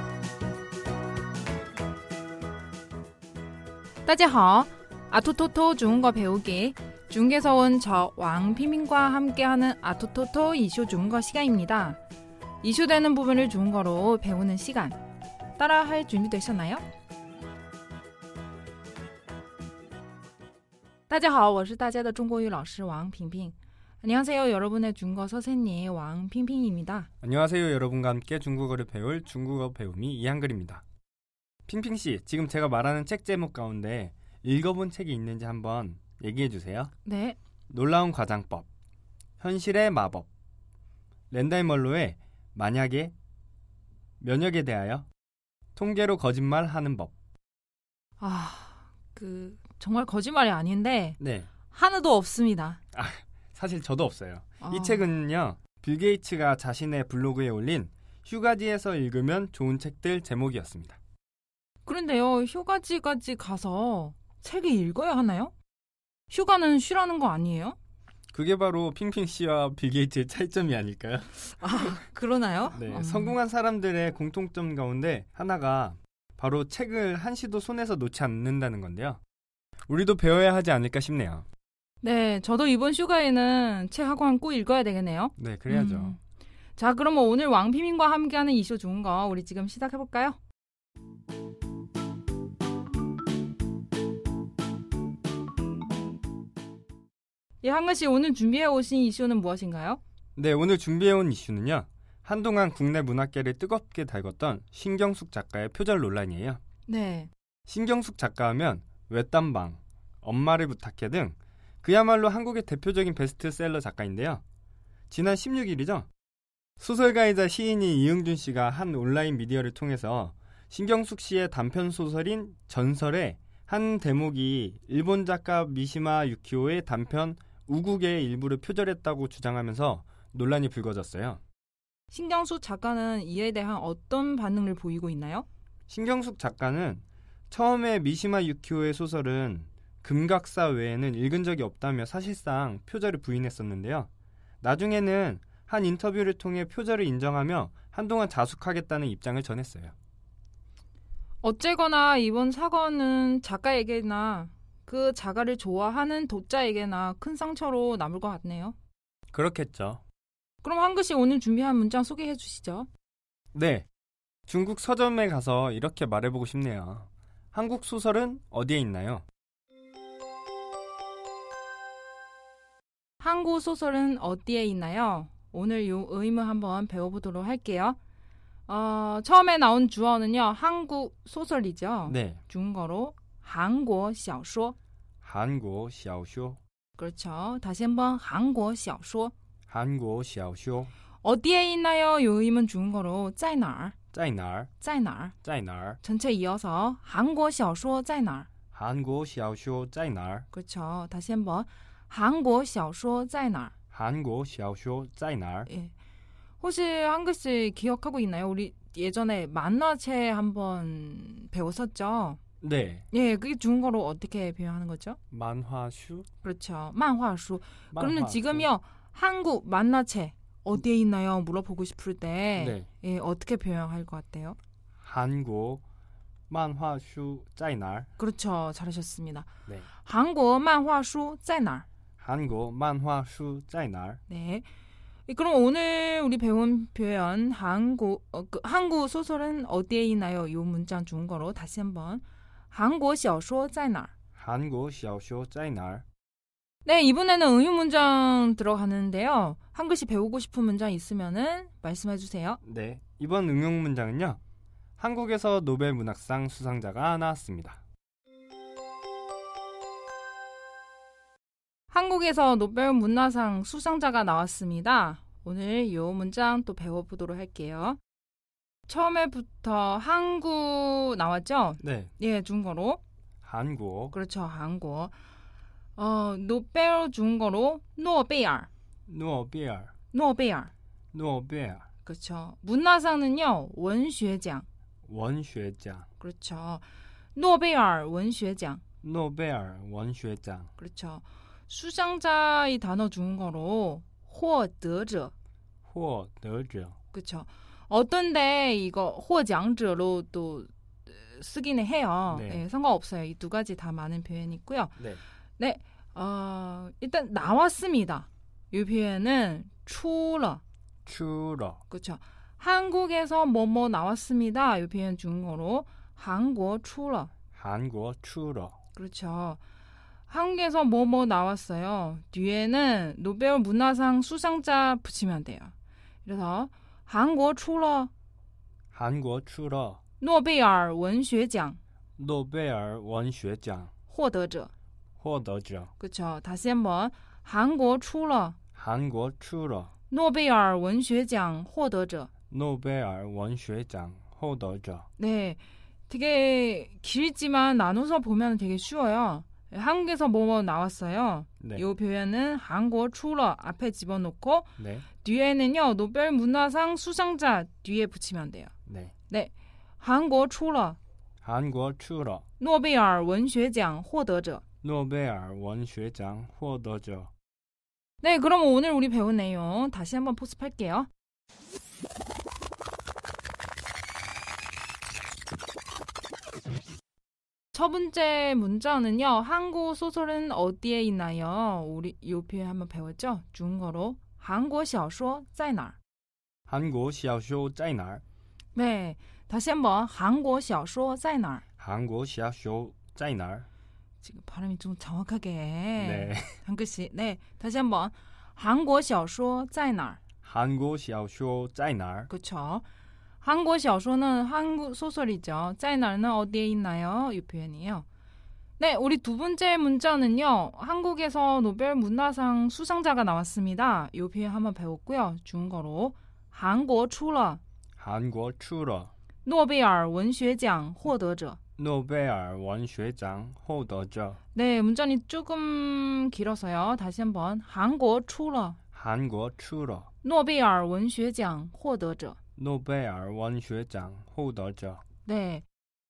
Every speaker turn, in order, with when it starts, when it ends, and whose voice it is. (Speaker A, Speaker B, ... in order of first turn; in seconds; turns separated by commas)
Speaker A: 4.0-12.0, Speaker A: 12.6-15.0, Speaker A: 15.6-16.8, Speaker A: 21.1-27.1, Speaker B: 27.2-30.8, Speaker B: 31.7-36.9, Speaker A: 37.0-37.4, Speaker B: 37.7-38.7, Speaker B: 39.4-40.3, Speaker B: 41.3-43.1, Speaker B: 44.2-45.1, Speaker B: 45.8-47.1, Speaker A: 48.2-51.2, Speaker B: 51.2-51.5, Speaker A: 51.7-52.8, Speaker B: 52.9-61.0, Speaker A: 54.6-55.0, Speaker A: 61.9-65.5, Speaker A: 66.3-67.8, Speaker B: 68.3-72.0, Speaker A: 71.6-73.4, Speaker B: 72.7-79.2, Speaker B: 79.9-81.5, Speaker A: 82.0-86.2, Speaker B: 85.4-86.2, Speaker A: 86.8-90.4, Speaker A: 97.6-100.0, Speaker B: 100.4-106.6, Speaker A: 106.9-107.3, Speaker B: 107.7-114.4, Speaker B: 115.1-116.1, Speaker B: 116.8-131.4, Speaker A: 132.1-135.5, Speaker B: 135.9-144.1, Speaker B: 144.6-149.9, Speaker A: 151.4-158.8, Speaker B: 159.3-160.0, Speaker A: 160.6-162.9, Speaker B: 163.5-163.9, Speaker B: 164.5-169.2, Speaker A: 173.2-178.0, Speaker A: 178.7-184.8, Speaker B: 182.1-182.4, Speaker B: 185.2-186.6, Speaker A: 187.0-189.3, Speaker B: 189.7-190.9, Speaker A: 191.2-194.0, Speaker B: 194.1-194.7, Speaker A: 194.8-195.4, Speaker B: 195.4-196.0, Speaker A: 196.0-198.5, Speaker B: 198.7-200.5, Speaker A: 200.5-203.7, Speaker B: 203.9-205.7, Speaker A: 205.7-205.9, Speaker A: 206.6-212.4, Speaker B: 212.6-213.1, Speaker A: 213.1-215.2, Speaker B: 215.3-216.3, Speaker A: 216.4-224.6, Speaker B: 217.9-218.7, Speaker B: 222.6-222.9, Speaker B: 225.0-225.8, Speaker B: 226.5-228.1, Speaker A: 228.2-231.9, Speaker B: 232.2-234.2, Speaker A: 234.3-234.7, Speaker A: 235.3-244.1, Speaker B: 244.3-246.1, Speaker A: 246.8-252.6, Speaker B: 252.6-254.4, Speaker B: 255.0-257.8, Speaker A: 261.9-268.0, Speaker A: 268.9-273.0, Speaker B: 271.8-272.1, Speaker B: 273.4-274.1, Speaker A: 274.1-275.1, Speaker A: 275.9-278.7, Speaker B: 279.1-279.9, Speaker A: 280.1-280.7, Speaker B: 281.1-281.9, Speaker A: 282.0-284.6, Speaker B: 285.1-286.1, Speaker A: 286.2-288.8, Speaker B: 289.0-290.7, Speaker A: 290.8-295.3, Speaker B: 295.9-296.9, Speaker A: 297.1-305.0, Speaker B: 302.3-302.6, Speaker A: 305.6-310.6, Speaker B: 311.1-311.8, Speaker A: 311.9-317.3, Speaker B: 317.5-318.8, Speaker A: 318.9-319.6, Speaker A: 320.3-325.7, Speaker A: 326.2-328.1, Speaker B: 328.9-330.0, Speaker A: 330.2-331.8, Speaker B: 332.2-333.9, Speaker A: 334.1-334.7, Speaker B: 335.2-335.9, Speaker A: 336.0-338.6, Speaker B: 338.8-339.9, Speaker A: 340.1-342.3, Speaker B: 342.5-345.1, Speaker A: 345.2-358.7, Speaker B: 354.8-355.1, Speaker B: 358.9-359.1, Speaker A: 359.3-361.0, Speaker B: 361.4-362.4, Speaker A: 362.6-364.6, Speaker B: 364.8-367.3, Speaker A: 368.2-371.1, Speaker A: 377.7-386.0, Speaker B: 386.7-388.2, Speaker A: 388.7-391.6, Speaker B: 391.8-393.6, Speaker A: 394.2-400.2, Speaker B: 396.0-396.6, Speaker B: 400.4-402.3, Speaker A: 402.3-402.8, Speaker A: 403.4-408.1, Speaker A: 408.8-417.6, Speaker B: 418.0-419.1, Speaker A: 419.4-421.6, Speaker B: 421.8-424.4, Speaker A: 424.5-428.8, Speaker B: 428.9-430.1, Speaker A: 430.2-432.4, Speaker B: 432.6-435.0, Speaker A: 435.2-435.6